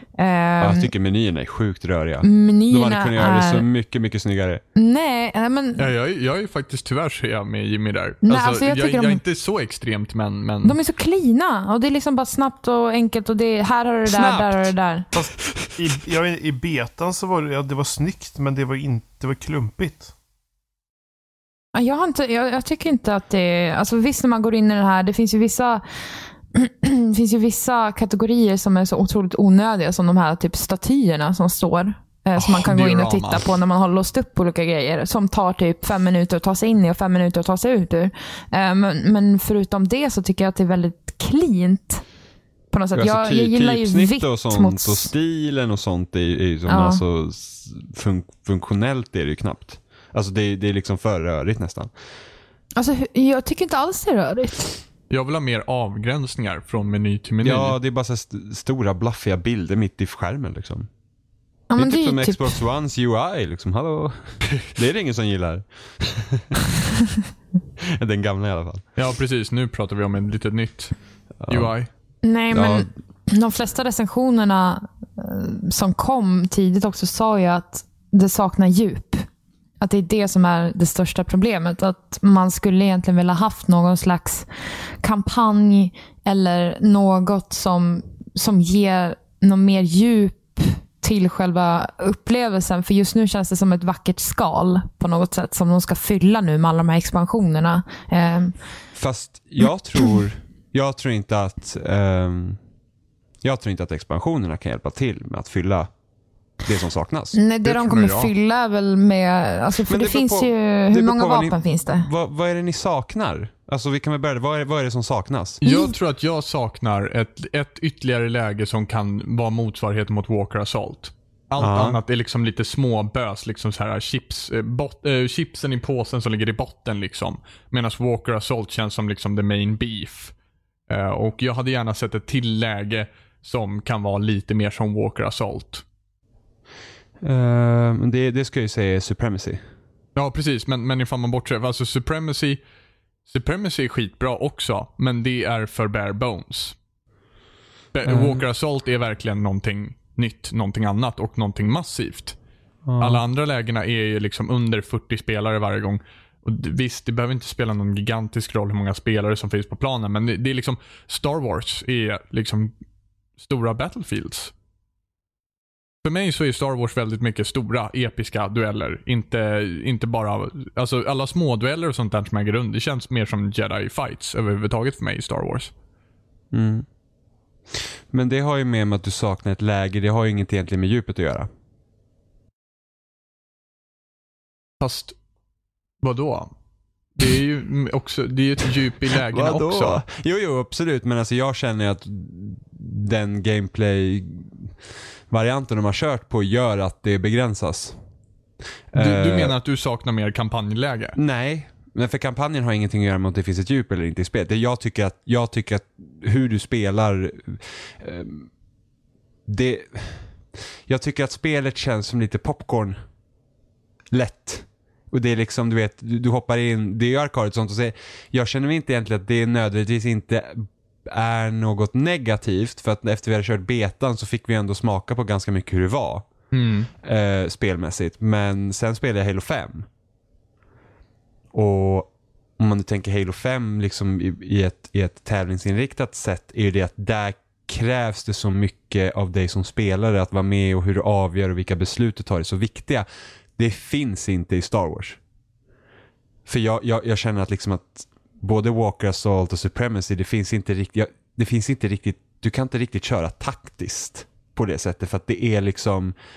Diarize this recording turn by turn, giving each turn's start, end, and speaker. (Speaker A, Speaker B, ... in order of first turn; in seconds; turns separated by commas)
Speaker A: 0.2-0.9, Speaker B: 0.6-4.6, Speaker A: 2.2-3.6, Speaker A: 4.8-5.9, Speaker C: 5.8-10.8, Speaker A: 8.2-9.2, Speaker A: 10.6-15.1, Speaker B: 14.1-14.7, Speaker D: 15.1-20.1, Speaker B: 15.5-15.9, Speaker A: 21.7-25.8, Speaker A: 26.5-42.0, Speaker C: 32.4-33.5, Speaker A: 42.7-45.1, Speaker B: 42.9-51.9, Speaker A: 46.7-47.0, Speaker A: 52.8-54.8, Speaker C: 55.1-57.8, Speaker B: 57.4-60.9, Speaker A: 61.7-62.6, Speaker B: 61.8-66.6, Speaker B: 67.9-68.8, Speaker C: 69.0-70.9, Speaker B: 71.4-71.7, Speaker C: 71.5-71.9, Speaker A: 72.2-79.2, Speaker B: 72.5-72.9, Speaker A: 79.8-84.5, Speaker A: 85.0-98.5, Speaker B: 98.9-102.6, Speaker B: 103.4-105.9, Speaker B: 106.6-107.4, Speaker A: 107.3-112.1, Speaker C: 107.6-108.3, Speaker B: 109.8-115.6, Speaker C: 115.6-130.3, Speaker A: 115.6-115.9, Speaker B: 121.6-122.0, Speaker C: 130.9-135.8, Speaker B: 137.2-139.6, Speaker C: 140.1-142.6, Speaker C: 143.3-146.7, Speaker C: 147.9-152.3, Speaker B: 148.1-148.4, Speaker B: 152.8-153.2, Speaker C: 153.0-162.7, Speaker C: 163.4-164.5, Speaker C: 166.0-175.7, Speaker B: 176.5-176.8, Speaker B: 177.7-181.5, Speaker C: 184.8-185.2, Speaker C: 186.0-186.5, Speaker C: 187.2-190.0, Speaker B: 189.1-194.7, Speaker B: 195.3-198.0, Speaker B: 198.9-199.5, Speaker C: 198.9-201.2, Speaker B: 201.2-208.5, Speaker B: 209.5-210.2, Speaker B: 210.9-213.0, Speaker B: 214.1-226.2, Speaker C: 226.5-226.9, Speaker B: 227.0-229.9, Speaker B: 231.5-243.1, Speaker B: 243.6-245.2, Speaker B: 246.4-256.1